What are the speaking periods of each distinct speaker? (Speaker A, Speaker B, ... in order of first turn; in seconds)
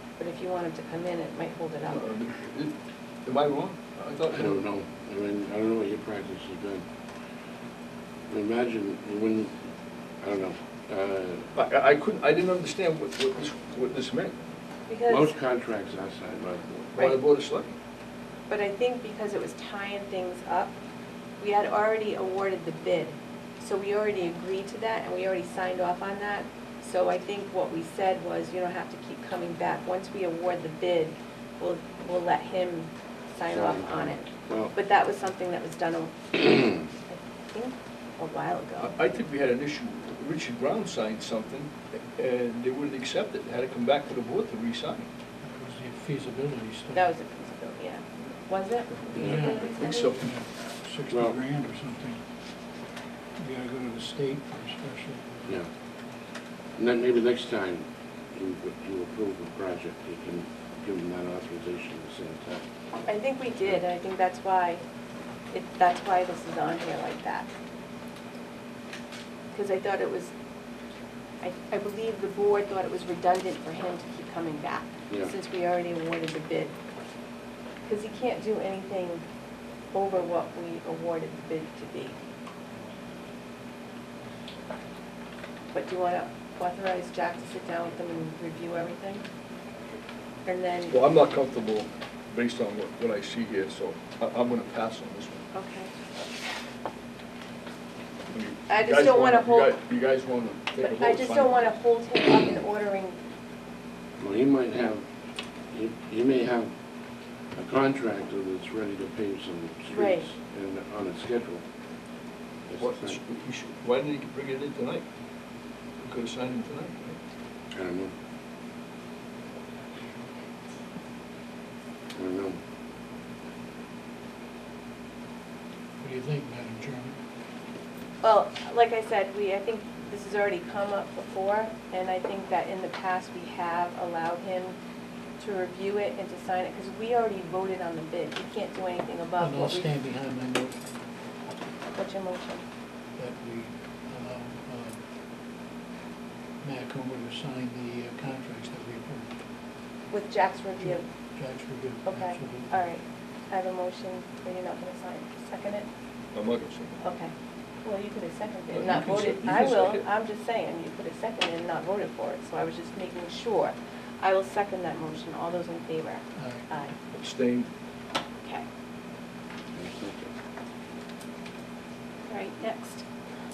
Speaker A: 0.2-2.0, 14.9-15.3, 18.5-20.8, 21.4-36.6, 37.1-39.0, 46.9-50.1, 63.0-64.8, 65.5-67.5, 69.5-70.3, 71.4-76.7, 77.8-79.2, 79.9-82.2, 85.7-89.2, 90.5-91.0, 95.5-95.9, 98.7-99.7, 100.8-103.2, 109.9-110.2, 128.2-134.8, 135.4-139.9, 141.9-142.6, 150.1-151.0, 152.1-155.9, 157.0-166.9, 172.3-173.1
Speaker B: 1.8-2.7, 3.2-4.6, 11.5-14.3, 16.9-17.8, 38.8-45.1, 48.9-50.3, 90.8-95.4, 98.3-101.7, 112.8-115.0, 116.0-117.2, 156.3-157.0, 158.7-160.1, 167.1-167.7
Speaker C: 4.3-6.8, 8.3-9.5, 10.2-11.5, 15.1-16.9, 33.5-34.7, 51.1-51.4, 56.8-62.6, 104.2-105.0, 105.7-106.7, 107.5-111.6, 112.7-113.2, 117.7-118.1, 122.1-122.6, 169.7-170.3
Speaker D: 45.4-47.1, 49.1-52.2, 53.4-55.5, 126.0-127.2, 139.4-140.8, 143.2-145.0, 146.6-149.3, 150.8-152.7, 166.3-166.7